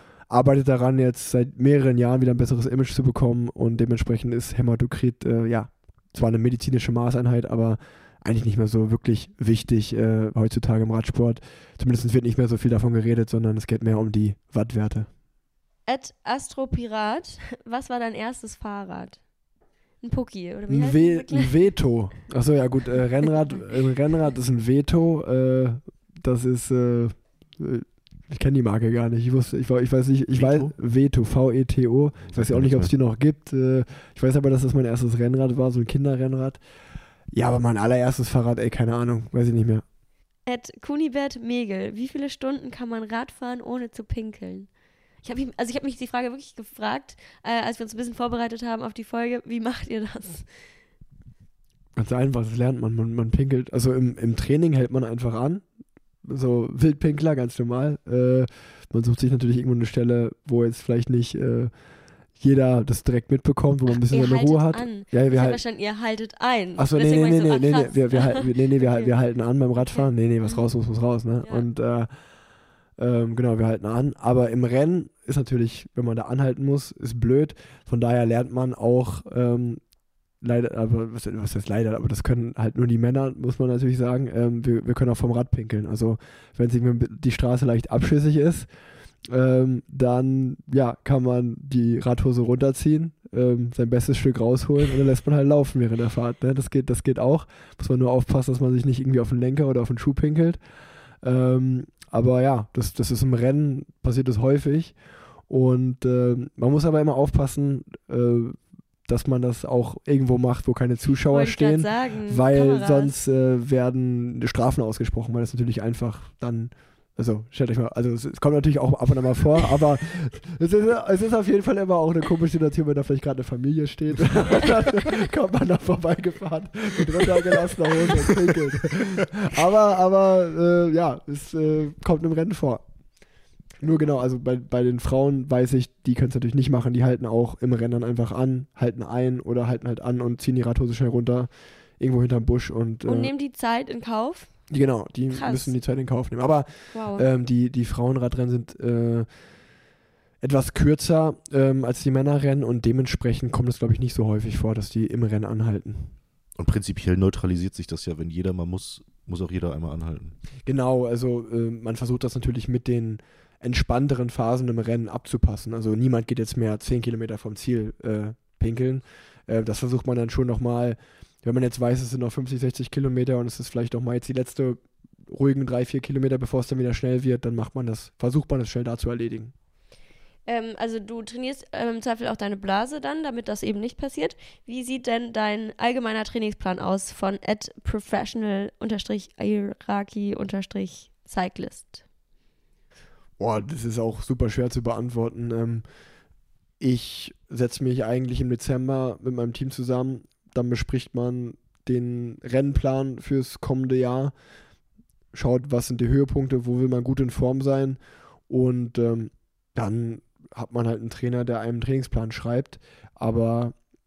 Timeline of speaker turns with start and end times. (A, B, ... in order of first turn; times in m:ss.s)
0:00.3-0:15.1 A
0:15.9-0:19.3 B
0:20.0-0:21.5 B
0:20.7-0:36.6 A
0:30.3-0:30.8 C
0:32.3-0:33.0 C
0:37.3-0:39.8 A
0:40.5-0:50.7 B
0:52.0-0:55.7 A
0:56.2-1:01.7 A
1:02.4-1:05.6 A
1:04.1-1:09.2 B
1:06.8-1:12.1 A
1:09.8-1:10.7 B
1:13.0-1:19.8 A
1:20.4-1:28.7 A
1:29.3-1:40.6 A
1:41.2-1:45.0 A
1:45.5-2:12.8 A
1:51.3-1:53.1 B
2:13.8-2:23.3 A
2:23.0-2:24.7 B
2:24.7-2:29.3 A
2:25.3-2:25.8 B
2:26.9-2:27.3 B
2:30.4-2:36.1 A
2:36.6-2:40.4 C
2:40.6-2:59.5 A
3:00.5-3:12.0 B
3:13.4-3:15.8 A
3:16.8-3:24.3 A
3:25.3-3:33.8 A